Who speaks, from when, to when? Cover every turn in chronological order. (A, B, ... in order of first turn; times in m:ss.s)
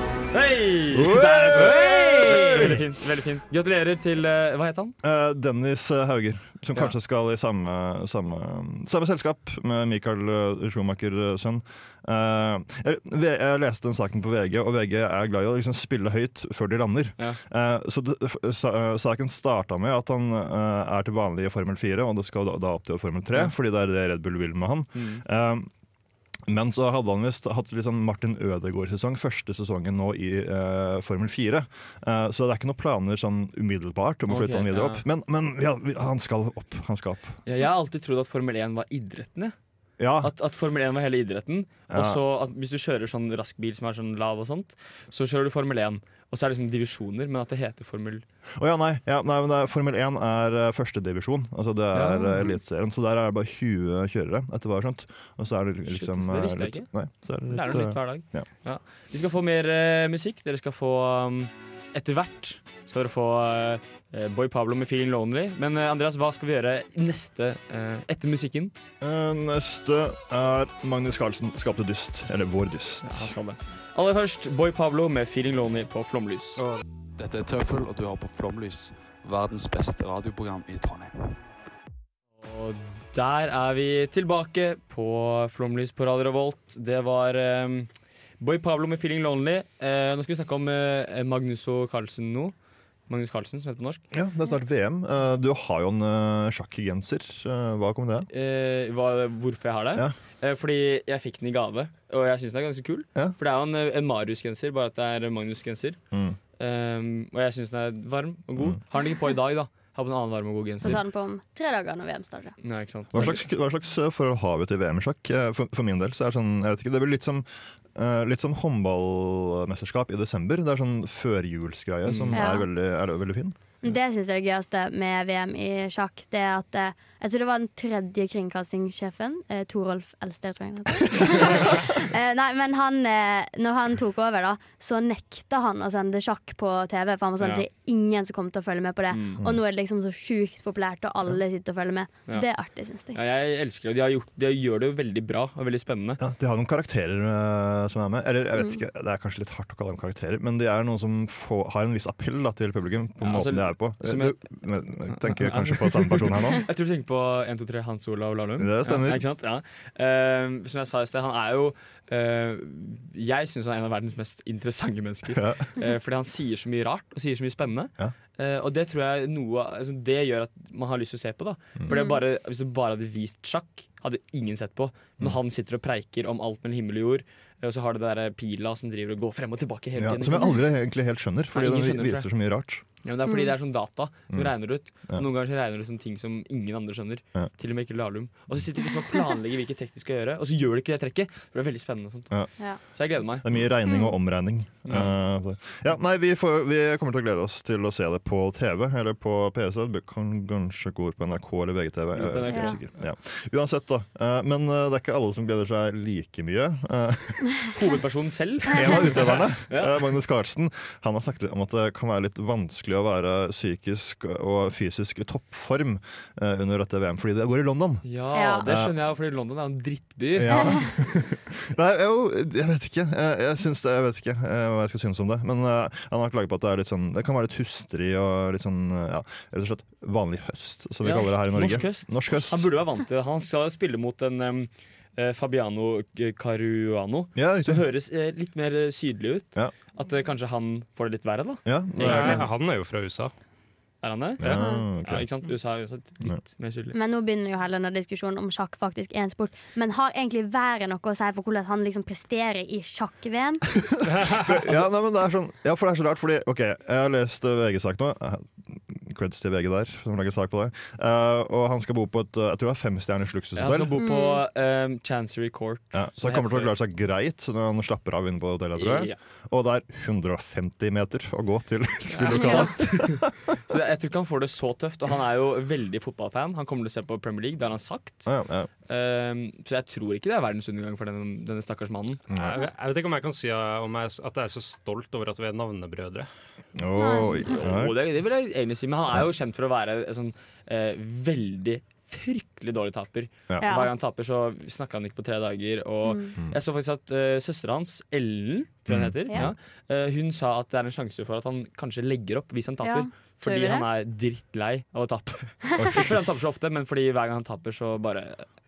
0:00.3-0:05.0 A
0:00.9-0:02.8 B
0:05.0-0:25.7 B
0:24.9-0:25.2 A
0:26.5-0:37.4 B
0:34.3-0:35.0 A
0:37.4-0:39.5 A
0:40.0-0:40.3 B
0:40.2-0:48.2 A
0:41.9-0:42.2 B
0:48.6-0:58.5 B
0:51.9-0:52.5 A
0:55.9-0:56.9 A
0:57.5-1:08.7 A
1:09.0-1:13.3 B
1:13.0-1:16.6 A
1:17.2-1:21.4 C
1:22.4-1:32.5 A
1:33.1-1:34.0 A
1:34.1-1:38.3 B
1:38.3-1:46.0 A
1:46.1-1:46.4 B
1:46.6-1:51.0 A
1:50.8-1:52.6 D
1:52.6-1:53.4 A
1:53.1-2:03.5 B
2:02.0-2:02.4 A
2:02.3-2:02.7 D
2:03.8-2:23.2 D
2:17.4-2:17.6 A
2:19.1-2:19.4 A
2:23.1-2:26.2 A
2:26.2-2:36.6 B
2:33.2-2:34.4 A
2:35.1-3:00.6 A
2:38.6-2:39.2 B
2:45.3-2:45.6 B
2:51.9-2:52.2 D
3:00.0-3:02.8 B
3:01.5-3:02.3 A
3:03.0-3:13.5 A
3:13.4-3:27.6 B
3:14.8-3:15.1 A
3:22.1-3:22.9 A
3:22.5-3:22.7 D
3:27.7-3:30.0 A
3:28.7-3:38.0 B
3:38.0-3:40.9 A
3:38.3-3:38.7 D
3:38.6-3:38.9 B
3:40.3-3:52.7 B
3:40.5-3:40.8 D
3:51.0-4:02.4 A
3:57.3-3:57.8 B
4:01.6-4:02.4 B
4:02.0-4:03.3 E
4:04.0-4:06.9 A
4:04.4-4:05.3 B
4:04.5-4:04.8 D
4:06.9-4:13.7 D
4:14.0-4:24.0 B
4:23.6-4:26.7 A
4:23.9-4:24.4 D
4:25.9-4:33.4 B
4:28.8-4:29.2 A
4:32.1-4:38.3 A
4:32.3-4:32.7 D
4:38.2-4:38.7 B
4:38.9-4:42.2 A
4:42.3-4:42.6 B
4:42.3-4:46.3 E
4:46.8-4:47.9 B
4:47.0-4:47.5 D
4:47.4-5:08.5 A
4:53.6-4:53.9 D
4:56.0-4:56.3 D
4:58.9-4:59.5 B
5:02.8-5:03.9 D
5:05.8-5:06.1 B